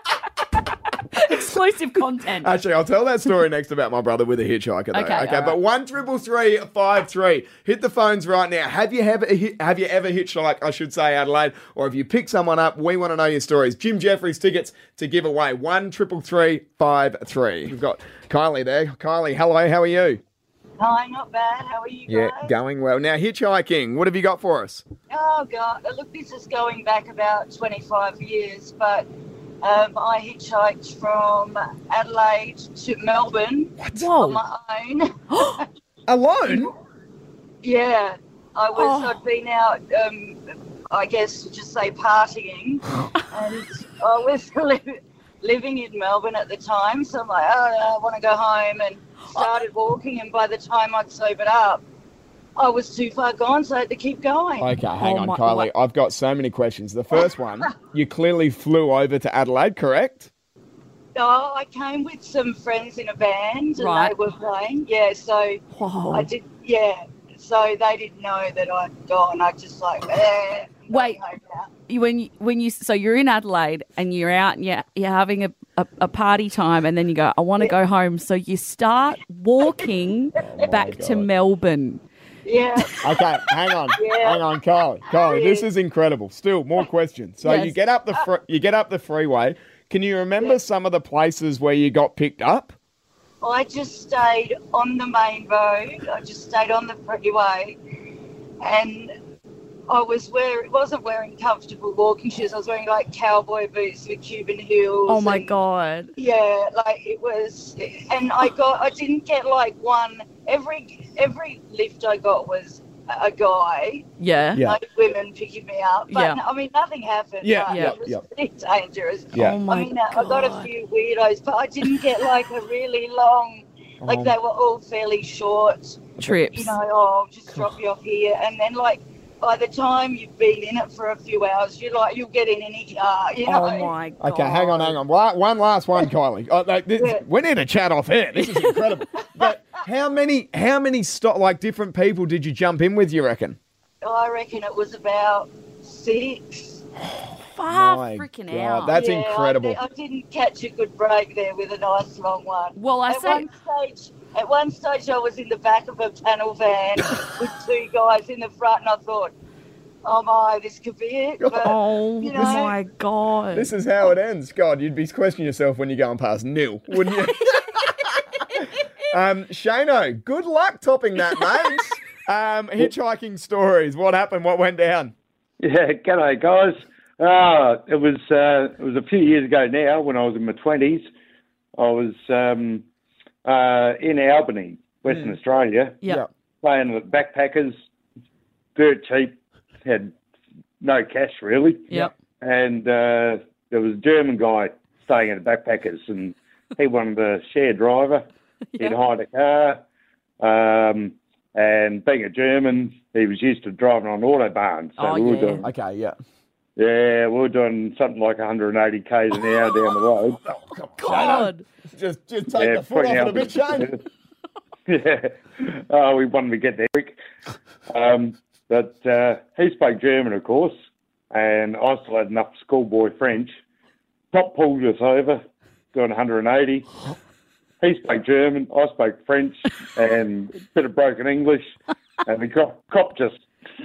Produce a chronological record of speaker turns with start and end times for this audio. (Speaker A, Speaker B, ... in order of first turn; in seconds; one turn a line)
Speaker A: 1.1-2.5
Speaker B: 2.4-20.2
Speaker A: 4.9-5.6
Speaker C: 20.8-22.5
Speaker B: 22.1-24.9
Speaker C: 25.1-29.1
Speaker C: 29.6-35.6
Speaker B: 33.8-34.1
Speaker A: 34.0-34.4
Speaker A: 35.3-35.6
Speaker B: 36.1-36.7
Speaker C: 37.6-51.8
Speaker A: 38.8-39.2
Speaker A: 49.3-49.6
Speaker C: 52.6-54.8
Speaker B: 54.6-60.3
Speaker A: 55.0-55.7
Speaker C: 61.1-71.7
Speaker A: 63.8-64.1
Speaker A: 65.7-66.3
Speaker A: 70.9-71.2
Speaker A: 71.9-82.0
Speaker B: 80.4-81.3
Speaker C: 82.5-83.4
Speaker B: 83.0-92.8
Speaker C: 83.9-85.7
Speaker A: 87.4-87.8
Speaker C: 93.4-97.8
Speaker C: 98.6-99.1
Speaker C: 99.9-105.6
Speaker A: 105.1-106.1
Speaker C: 106.2-133.9
Speaker A: 114.2-114.7
Speaker A: 116.1-116.4
Speaker B: 117.4-118.2
Speaker A: 117.7-118.0
Speaker B: 119.3-119.6
Speaker A: 119.3-120.7
Speaker B: 124.0-124.3
Speaker A: 126.2-126.8
Speaker A: 133.4-135.0
Speaker B: 134.2-143.6
Speaker C: 137.0-137.2
Speaker A: 138.4-138.8
Speaker C: 144.0-146.8
Speaker B: 147.1-149.8
Speaker A: 147.4-149.0
Speaker C: 148.9-159.3
Speaker A: 152.8-153.5
Speaker C: 160.0-162.8
Speaker B: 161.4-161.7
Speaker A: 161.6-163.7
Speaker B: 162.3-162.7
Speaker B: 163.5-175.1
Speaker D: 175.6-181.1
Speaker D: 181.8-182.8
Speaker D: 183.4-186.0
Speaker D: 186.6-187.8
Speaker D: 188.8-190.1
Speaker D: 190.8-198.2
Speaker D: 198.8-199.8
Speaker D: 200.4-205.6
Speaker A: 205.0-205.7
Speaker B: 205.6-206.2
Speaker D: 206.8-210.4
Speaker B: 210.4-213.9
Speaker A: 211.0-211.6
Speaker D: 212.6-214.0
Speaker D: 214.9-217.2
Speaker D: 217.9-220.8
Speaker D: 221.3-223.6
Speaker D: 224.3-226.9
Speaker D: 227.8-233.4